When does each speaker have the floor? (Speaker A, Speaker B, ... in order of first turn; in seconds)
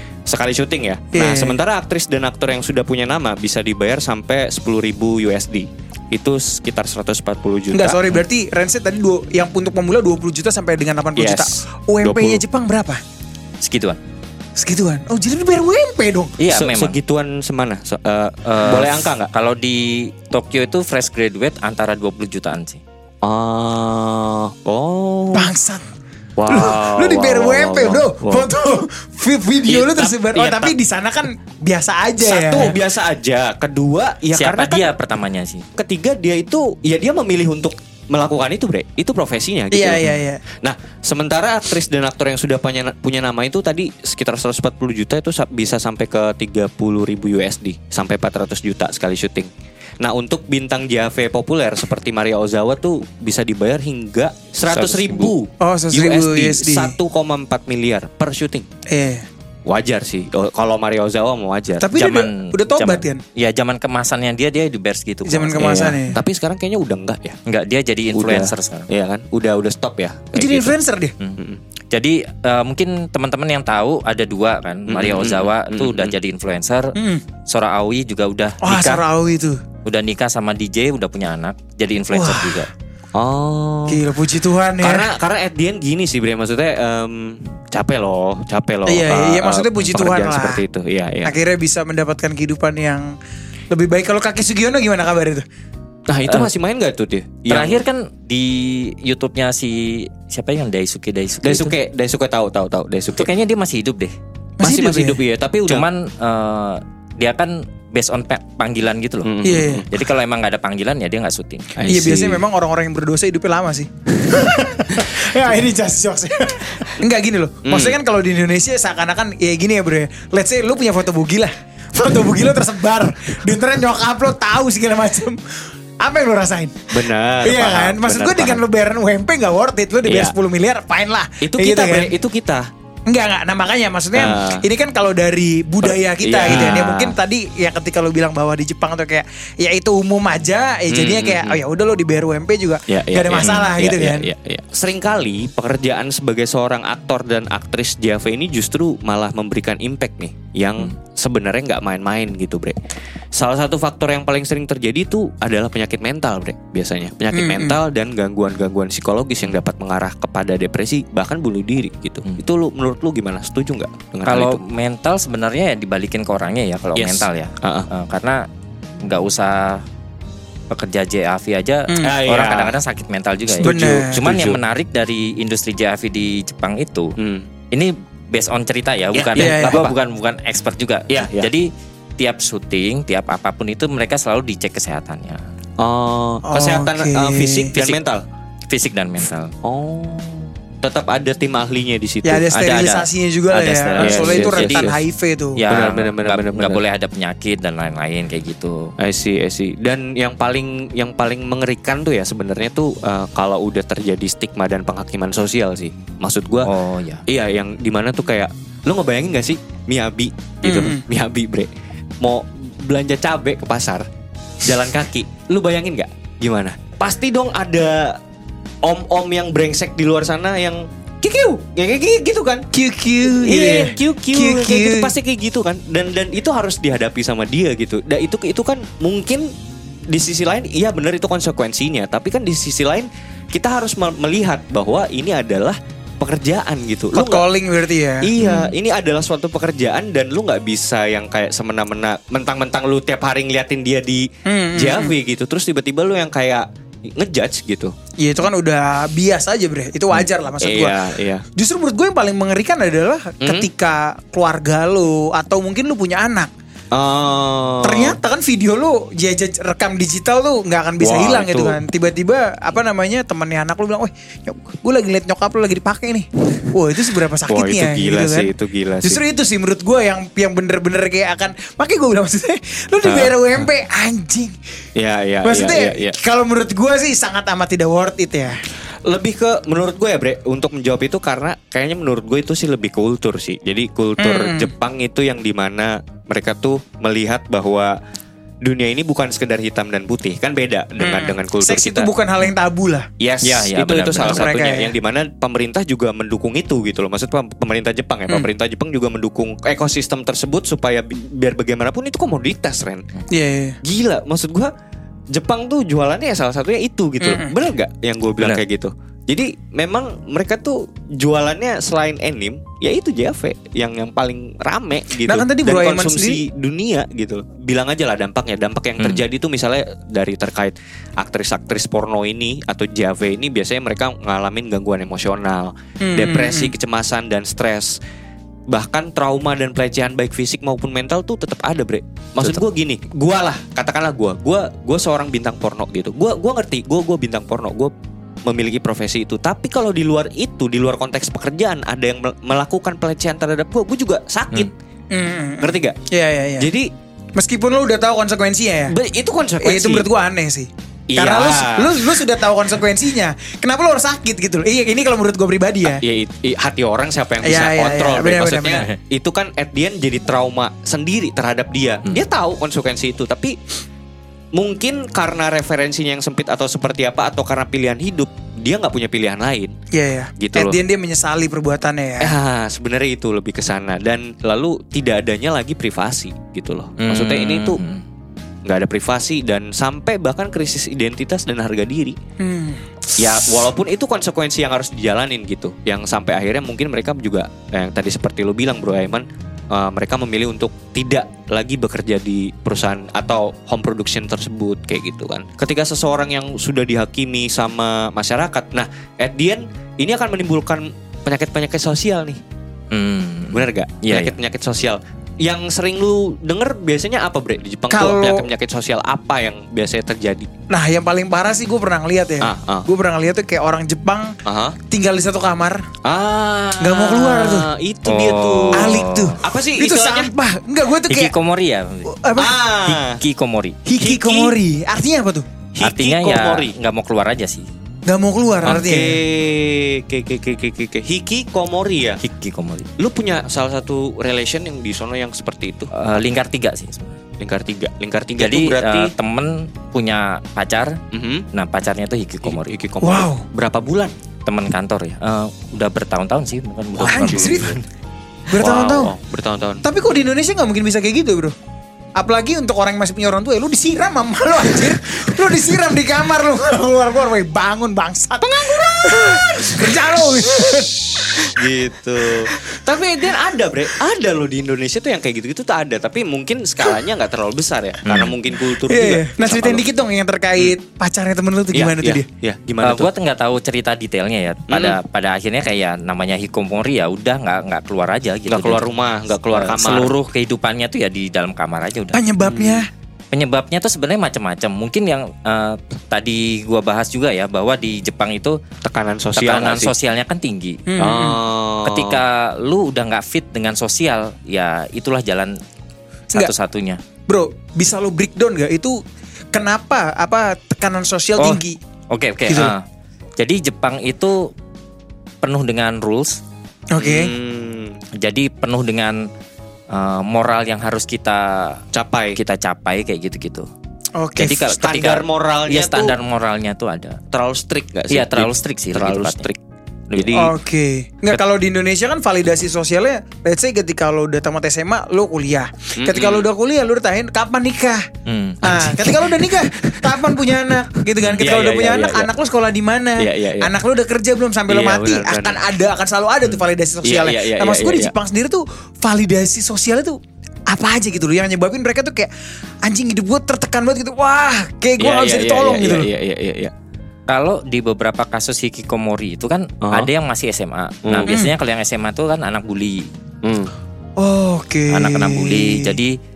Speaker A: 0.3-8.0, 11.2-12.4, 16.5-19.3, 23.2-25.5, 26.4-28.5, 29.6-30.7, 32.2-34.9, 35.8-40.1, 40.6-58.7, 59.6-61.9, 65.6-67.4, 68.1-70.7, 74.9-76.1, 83.1-84.0, 84.8-91.4, 96.1-97.8, 101.4-103.3, 104.6-105.9, 109.2-109.9, 111.8-112.4, 117.6-118.0, 126.9-128.6, 130.1-130.3, 131.4-132.7, 134.1-134.7, 135.8-137.2, 140.9-141.6, 142.9-152.8, 153.3-164.6, 166.9-167.9, 172.0-172.8, 173.5-174.6, 177.2-177.5, 179.1-179.9, 181.1-181.5, 185.8-188.2, 189.6-192.5, 194.0-194.9, 195.7-196.8, 199.0-206.7, 207.3-211.7, 212.2-214.1, 214.6-218.2, 218.8-222.7, 223.3-229.5, 230.1-237.5, 238.2-247.9, 250.1-251.4, 253.4-253.7, 256.9-258.2, 261.0-261.8, 267.5-269.2, 273.0-273.4, 274.9-276.1, 279.1-287.9, 288.6-292.1, 293.2-303.0, 303.8-304.7, 305.3-328.0, 328.7-337.9, 338.4-344.7, 345.6-345.9, 346.6-346.9, 348.9-350.1, 351.1-352.1, 355.9-363.6, 364.5-369.7, 370.4-370.8, 372.2-377.8, 378.6-382.1, 383.1-402.4, 403.5-410.5, 412.4-412.9, 414.4-414.8, 416.0-420.3, 422.4-423.2, 424.0-424.6, 425.7-426.7, 428.6-432.2, 433.0-435.9, 437.4-439.1, 441.1-441.5, 442.4-444.1, 447.0-447.7, 448.6-449.8, 458.4-460.0, 460.7-469.9, 471.7-473.1, 474.7-475.0, 478.5-480.1, 482.4-482.9, 488.8-489.9, 491.0-492.2, 507.0-508.0, 511.9-512.4, 514.8-516.1, 517.3-519.6, 520.1-520.5, 526.0-526.5, 528.7-530.4, 531.4-532.3, 533.2-533.7, 534.7-535.6, 536.5-538.1, 545.0-546.7, 549.8-550.1, 553.4-553.7
Speaker B: 1.1-1.6, 7.7-13.0, 14.6-16.4, 25.3-25.9, 26.5-32.8, 39.7-40.4, 55.6-57.0, 58.9-59.3, 61.8-63.2, 65.2-66.2, 70.3-71.1, 77.0-77.2, 78.6-79.6, 82.1-82.7, 83.9-85.1, 88.9-90.6, 91.2-93.1, 93.7-95.4, 104.6-105.2, 109.4-109.9, 111.9-132.1, 133.1-144.3, 157.3-157.8, 171.9-172.2, 173.6-174.2, 179.4-179.9, 186.4-187.7, 192.2-195.6, 210.6-211.0, 222.7-225.1, 237.1-238.3, 244.4-245.2, 248.2-251.0, 251.5-256.5, 257.8-268.5, 269.0-274.6, 275.4-278.6, 284.2-284.7, 291.0-293.1, 294.2-294.9, 303.3-303.8, 307.2-307.5, 315.2-316.4, 326.0-326.7, 345.1-346.7, 347.4-348.9, 349.6-356.0, 357.4-358.9, 369.9-372.4, 382.4-382.9, 407.9-408.5, 410.7-414.4, 414.9-415.9, 416.8-417.7, 418.7-421.3, 422.1-422.6, 423.9-425.5, 428.1-429.2, 443.0-443.4, 447.1-447.8, 448.5-449.1, 449.8-451.5, 452.2-461.7, 462.2-462.8, 468.8-472.2, 482.1-482.9, 490.9-491.4, 497.3-499.0, 499.5-501.8, 502.5-502.7, 506.9-507.3, 514.1-514.7, 520.3-528.0, 528.6-540.2, 540.7-542.3, 542.8-546.1, 551.3-551.5, 554.2-556.0
Speaker C: 13.6-14.0, 16.4-17.0, 18.4-22.8, 34.3-35.6, 54.7-55.3, 61.9-66.0, 67.5-68.9, 71.9-76.9, 77.5-79.0, 79.8-82.7, 97.5-101.7, 103.2-104.1, 105.7-109.3, 109.9-111.7, 143.4-143.7, 164.2-168.4, 169.0-169.8, 170.7-177.1, 177.7-185.4, 188.7-189.5, 192.5-194.9, 195.6-198.9, 206.6-207.2, 238.4-238.7, 293.4-294.5, 377.0-378.0, 402.9-404.4, 418.1-419.4, 421.1-422.1, 422.9-423.8, 425.8-427.7, 432.2-432.9, 435.9-437.2, 438.4-441.0, 441.5-442.8, 444.4-447.8, 468.1-468.4, 472.8-478.9, 479.5-482.2, 483.3-488.6, 489.4-490.8, 491.8-495.6, 496.3-497.0, 501.4-502.8, 503.4-504.5, 505.4-506.4, 508.2-509.3, 509.9-511.8, 512.4-513.7, 514.4-517.2, 518.1-519.5, 520.1-520.4, 528.2-529.1, 547.3-553.1, 554.9-556.2